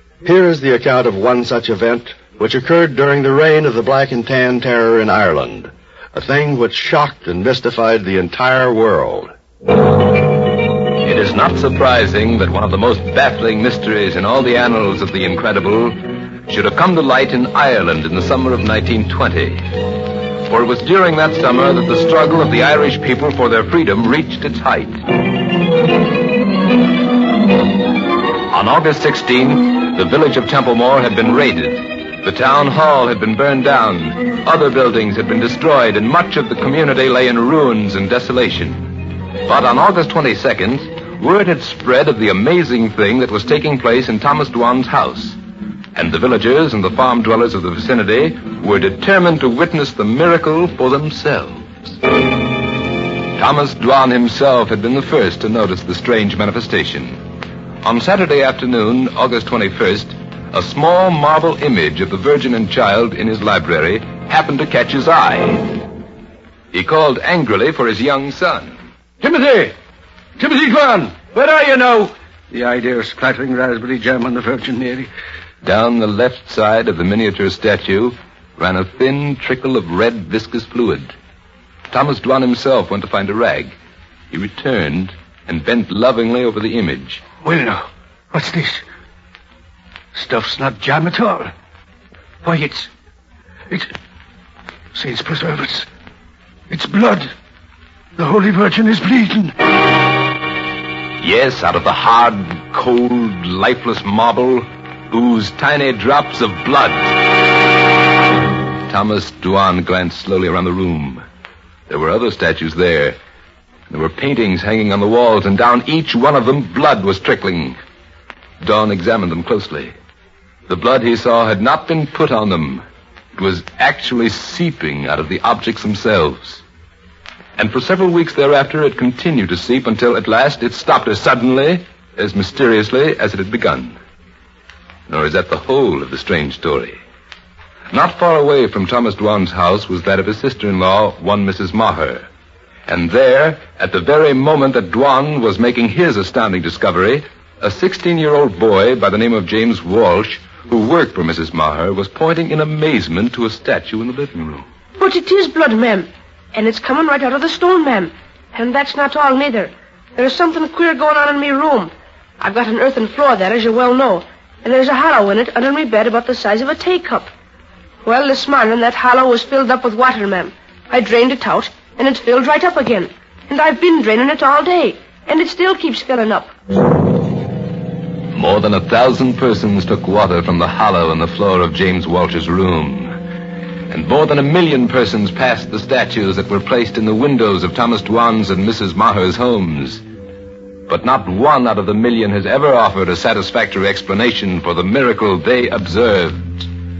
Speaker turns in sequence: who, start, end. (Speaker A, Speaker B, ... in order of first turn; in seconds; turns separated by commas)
Speaker A: 0.2-9.3, Speaker B: 11.0-25.0, Speaker B: 28.5-45.4, Speaker B: 45.9-51.9, Speaker B: 53.3-57.2, Speaker B: 57.8-65.8, Speaker B: 66.7-68.8, Speaker C: 69.2-69.7, Speaker C: 70.4-75.1, Speaker B: 75.6-81.1, Speaker B: 81.9-83.7, Speaker B: 84.3-87.2, Speaker C: 87.4-88.8, Speaker C: 90.1-91.5, Speaker C: 92.4-92.9, Speaker C: 94.9-95.9, Speaker C: 96.7-97.3, Speaker C: 98.2-99.5, Speaker B: 101.2-107.5, Speaker B: 108.9-111.2, Speaker B: 111.9-113.2, Speaker B: 113.9-117.8, Speaker B: 118.6-119.9, Speaker B: 120.7-122.8, Speaker B: 123.3-126.6, Speaker B: 127.6-133.9, Speaker B: 135.1-137.0, Speaker B: 137.9-142.2, Speaker B: 142.9-154.6, Speaker D: 155.0-167.3, Speaker D: 168.0-176.5, Speaker B: 178.3-183.1, Speaker B: 183.9-190.0, Speaker B: 190.9-196.7